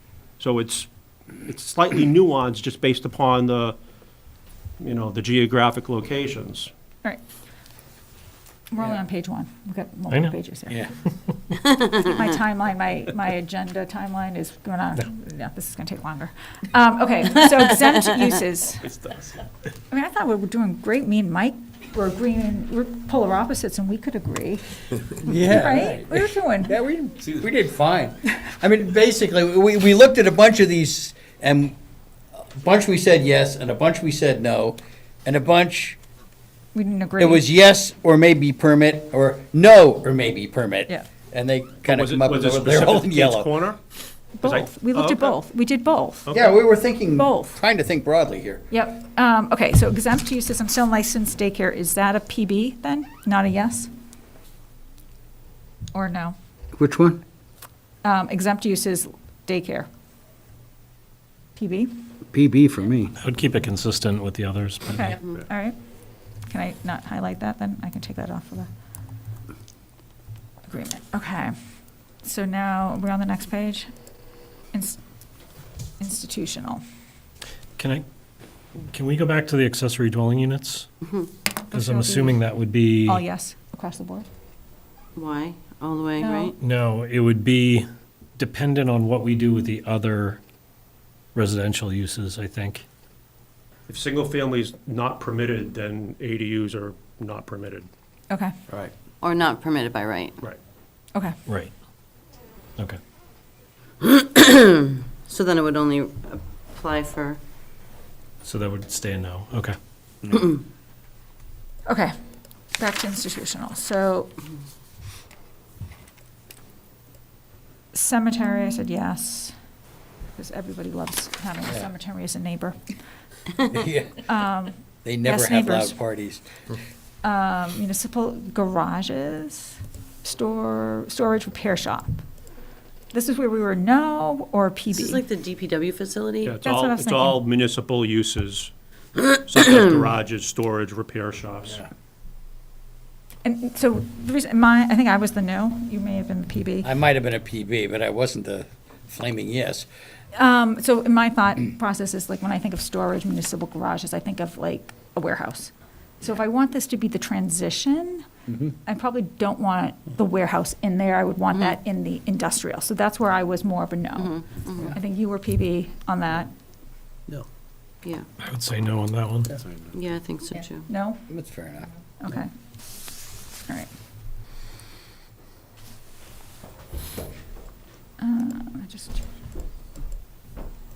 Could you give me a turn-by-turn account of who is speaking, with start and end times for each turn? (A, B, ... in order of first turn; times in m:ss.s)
0:00.4-0:00.9 A
0:01.4-0:03.8 A
0:04.8-0:06.7 A
0:08.7-0:10.9 B
0:10.1-0:10.4 C
0:11.8-0:18.8 B
0:18.8-0:19.4 A
0:19.9-0:26.8 B
0:25.2-0:31.8 D
0:32.4-0:36.0 D
0:36.7-0:37.4 B
0:37.2-0:43.6 D
0:41.8-0:43.8 A
0:44.4-0:46.3 B
0:44.4-0:45.4 A
0:46.2-0:46.5 A
0:46.3-0:48.6 D
0:47.1-0:47.6 B
0:48.7-0:53.9 B
0:55.9-0:56.4 B
0:56.8-0:57.2 D
0:58.0-0:59.9 B
1:01.6-1:01.9 B
1:02.3-1:03.1 D
1:03.2-1:05.2 C
1:04.8-1:05.8 B
1:06.5-1:08.7 B
1:10.7-1:11.5 B
1:12.2-1:13.9 B
1:14.7-1:15.0 B
1:16.0-1:16.8 B
1:17.8-1:18.0 C
1:18.8-1:20.9 C
1:21.7-1:22.4 B
1:21.7-1:23.2 C
1:23.0-1:24.2 B
1:25.2-1:26.5 E
1:26.2-1:26.5 B
1:26.6-1:30.4 C
1:31.3-1:32.8 C
1:33.9-1:37.9 A
1:38.3-1:38.5 B
1:39.2-1:40.4 E
1:44.0-1:47.4 E
1:48.4-1:49.8 C
1:51.9-1:52.1 B
1:52.8-1:54.3 B
1:57.9-1:59.5 B
2:00.4-2:03.0 B
2:03.7-2:04.2 D
2:04.2-2:06.0 B
2:05.0-2:06.4 D
2:07.2-2:12.2 B
2:13.1-2:15.2 B
2:14.9-2:16.6 E
2:16.4-2:18.7 A
2:16.6-2:17.4 B
2:19.4-2:21.8 A
2:23.4-2:26.9 B
2:26.8-2:29.9 D
2:30.3-2:38.3 B
2:38.5-2:38.7 D
2:38.8-2:46.5 B
2:44.2-2:45.0 E
2:48.4-2:49.5 C
2:49.9-2:50.9 E
2:50.8-2:51.2 B
2:51.3-2:51.9 D
2:52.2-2:52.5 B
2:58.2-2:59.2 B